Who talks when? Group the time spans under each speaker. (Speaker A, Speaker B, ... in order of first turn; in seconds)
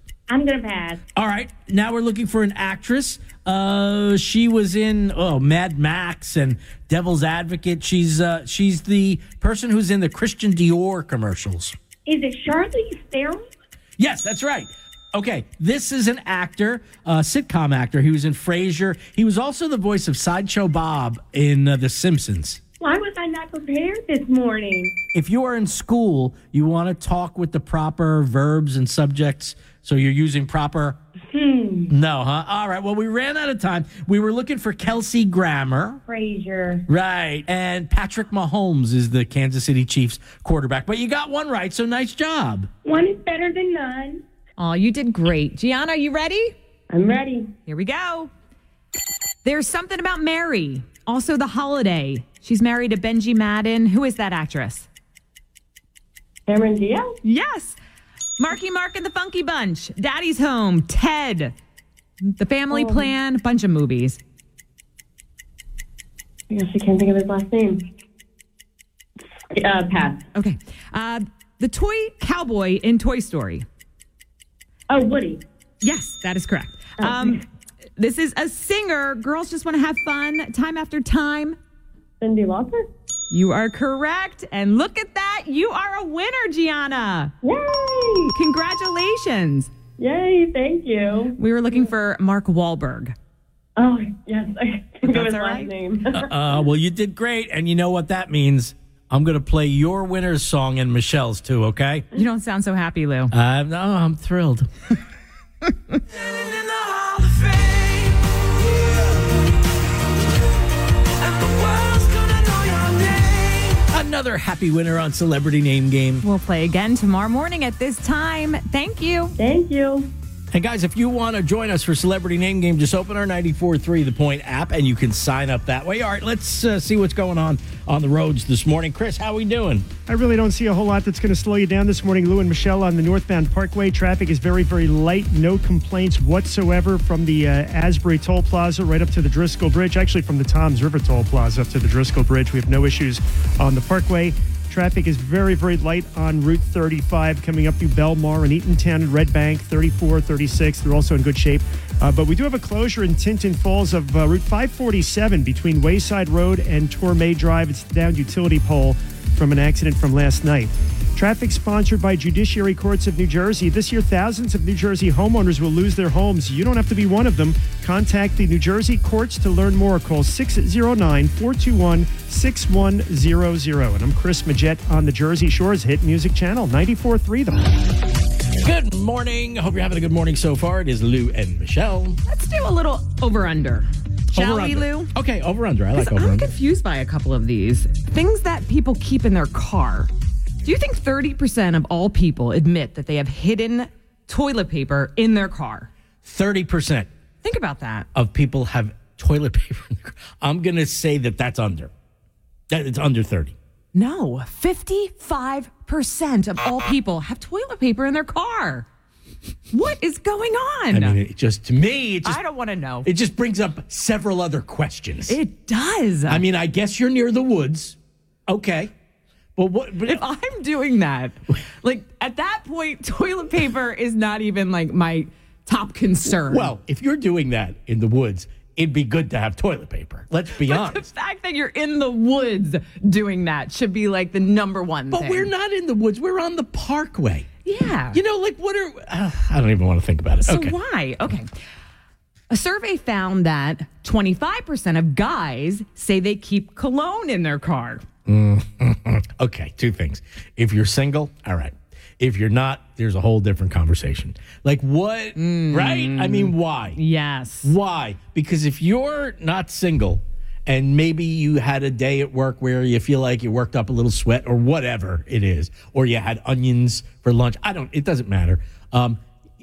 Speaker A: 0.3-1.0, 12.1-13.4, 22.8-24.9, 31.3-31.9, 36.1-36.9, 42.8-44.2, 46.9-47.5, 56.5-57.1, 62.7-63.0, 66.5-67.9, 69.5-70.2, 74.9-75.4, 82.2-82.9, 87.4-88.3, 90.0-91.4, 93.8-96.3, 119.4-120.1
Speaker B: 1.1-11.7, 14.0-22.6, 25.1-31.0, 31.9-36.0, 36.9-42.7, 96.1-102.0, 103.3-104.7, 107.6-107.9, 113.9-116.2, 120.5-129.9, 178.6-182.2, 184.3-186.5, 196.2-197.1, 198.1-201.9, 202.7-203.5, 210.9-212.4, 213.0-215.4, 216.3-218.9, 219.6-220.2, 226.3-231.1, 235.1-237.5, 238.1-240.7, 248.2-257.0, 257.6-269.2
Speaker C: 44.6-46.5, 47.6-48.3, 49.4-54.9, 57.2-57.8, 58.4-61.5, 62.2-64.2, 70.3-73.7, 75.8-77.4, 78.0-81.6, 83.3-87.3, 88.3-89.7, 91.3-93.1, 95.0-95.7, 102.1-103.3, 111.3-113.8, 116.2-119.3, 182.2-185.1, 185.9-190.1, 190.6-195.9, 197.4-198.1, 203.9-208.8, 209.7-211.2, 212.2-213.1, 215.3-216.4, 220.1-226.7, 230.6-235.5, 237.6-238.2, 240.4-241.5, 242.5-248.0, 255.3-257.7
Speaker D: 130.1-177.7